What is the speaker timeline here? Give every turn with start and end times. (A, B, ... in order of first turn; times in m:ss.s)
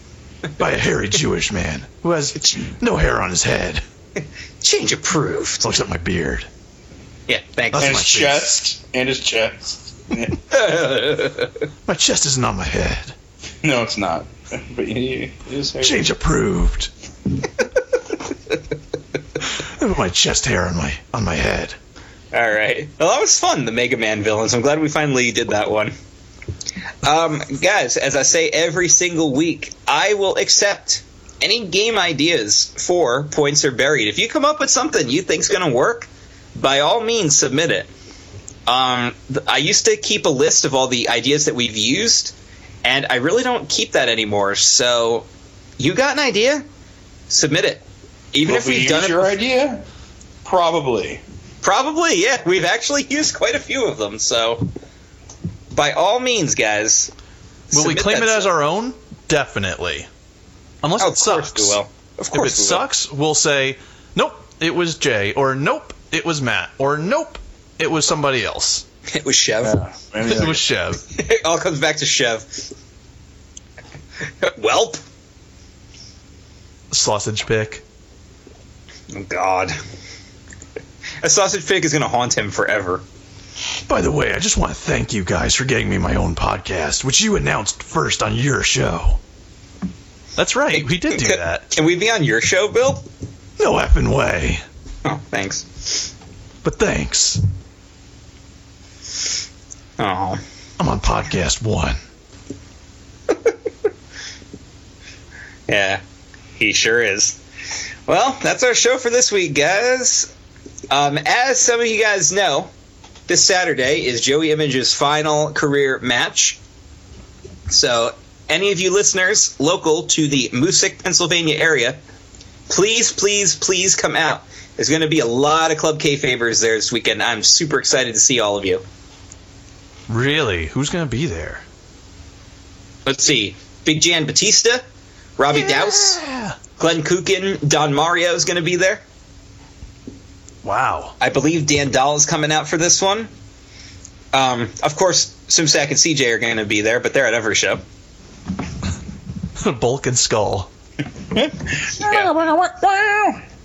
0:00.6-0:03.8 A
0:04.6-0:05.6 B
0:05.6-0:06.5 A
0:07.3-0:08.0 B
0:07.7-0:08.5 A
0:07.8-0:10.4 C
0:10.5-0:11.5 B
0:11.8-0:13.1 A
0:13.6-0:16.1 C
0:15.8-0:16.9 A
0:19.4-0:21.8 A
0:22.3-0:25.9 B
0:27.0-0:37.9 B
0:38.7-0:42.3 B
0:42.8-0:45.3 B
0:45.8-0:46.6 B
0:47.3-0:49.3 B
0:48.4-0:49.8 C
0:50.4-0:51.2 C
0:51.6-0:54.7 B
0:55.7-0:57.1 B
0:57.7-0:58.5 B
0:57.7-1:00.1 A
1:00.8-1:01.8 A
1:01.0-1:02.8 B
1:02.3-1:08.8 A
1:09.1-1:09.8 B
1:09.6-1:10.6 C
1:10.2-1:11.0 A
1:11.1-1:12.7 B
1:14.4-1:15.0 B
1:16.9-1:17.8 A
1:19.1-1:19.7 B
1:21.2-1:23.0 B
1:23.9-1:29.2 A
1:30.4-1:31.7 A
1:31.1-1:33.0 B
1:33.6-1:34.6 A
1:35.0-1:36.1 B
1:36.6-1:37.4 A
1:40.0-1:40.4 B
1:40.8-1:42.0 A
1:45.7-1:46.0 B
1:46.6-1:47.4 B
1:48.1-1:50.3 B
1:50.9-1:52.7 B
1:53.3-1:56.6 B
1:57.7-2:02.0 B
2:02.7-2:08.8 B
2:10.1-2:11.6 A
2:13.0-2:14.8 B
2:15.4-2:16.2 B
2:15.5-2:16.6 A
2:16.8-2:19.0 B
2:20.6-2:21.1 A
2:21.2-2:23.3 B
2:24.3-2:27.8 B
2:29.6-2:30.7 A
2:31.2-2:33.4 C
2:32.1-2:32.3 B